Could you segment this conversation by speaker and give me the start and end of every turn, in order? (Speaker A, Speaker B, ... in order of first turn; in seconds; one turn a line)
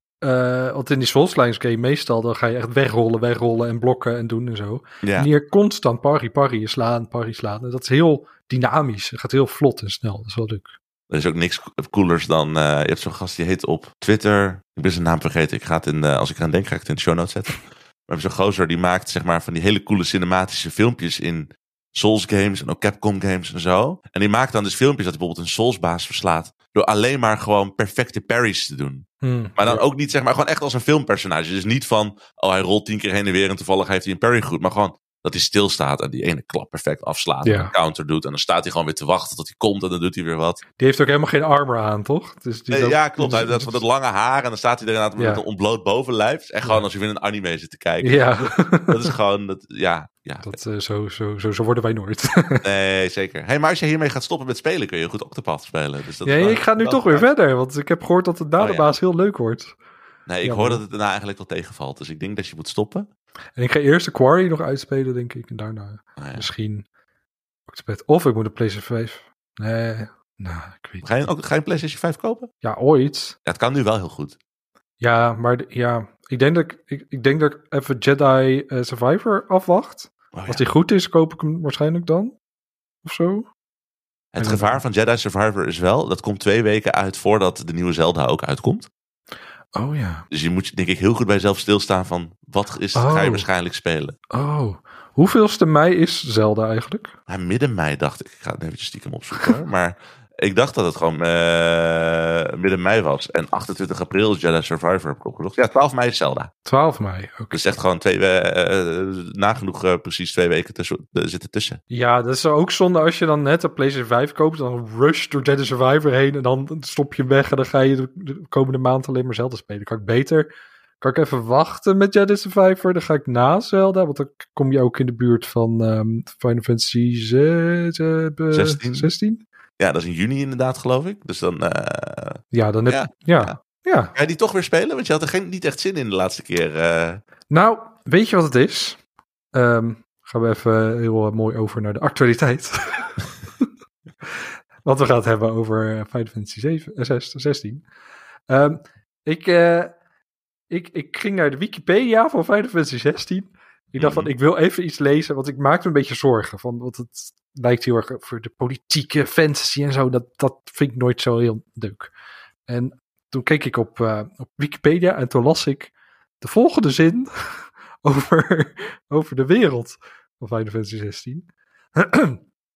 Speaker A: 0.2-10.7
Speaker B: 5.0-5.3
Speaker B: 11.1-29.1
Speaker A: 29.2-29.9
Speaker B: 29.6-40.6
Speaker A: 37.4-37.7
Speaker A: 40.8-43.8
Speaker B: 42.7-50.5
Speaker A: 45.2-45.4
Speaker A: 48.0-49.0
Speaker A: 50.4-52.6
Speaker B: 52.6-57.3
Speaker A: 56.2-59.8
Speaker B: 58.6-58.9
Speaker B: 60.3-63.1
Speaker A: 60.4-60.8
Speaker A: 63.6-66.8
Speaker B: 66.2-66.5
Speaker A: 67.7-71.1
Speaker B: 71.0-72.5
Speaker A: 72.6-73.4
Speaker B: 73.5-74.4
Speaker A: 75.0-82.3
Speaker B: 80.3-80.7
Speaker A: 83.0-83.5
Speaker B: 84.3-88.9
Speaker A: 84.4-84.8
Speaker A: 89.8-90.2
Speaker B: 90.3-94.2
Speaker A: 93.0-93.5
Speaker A: 94.3-97.1
Speaker B: 97.3-106.5
Speaker A: 106.7-107.6
Speaker B: 107.5-111.8
Speaker A: 111.9-129.4
Speaker B: 128.5-129.1
Speaker B: 129.8-133.6
Speaker A: 132.5-134.1
Speaker B: 134.2-137.2
Speaker A: 137.5-139.0
Speaker A: 139.5-143.2
Speaker A: 144.8-147.8
Speaker A: 148.5-150.0
Speaker A: 150.7-162.1
Speaker B: 154.0-154.3
Speaker A: 162.7-171.5
Speaker A: 172.0-172.4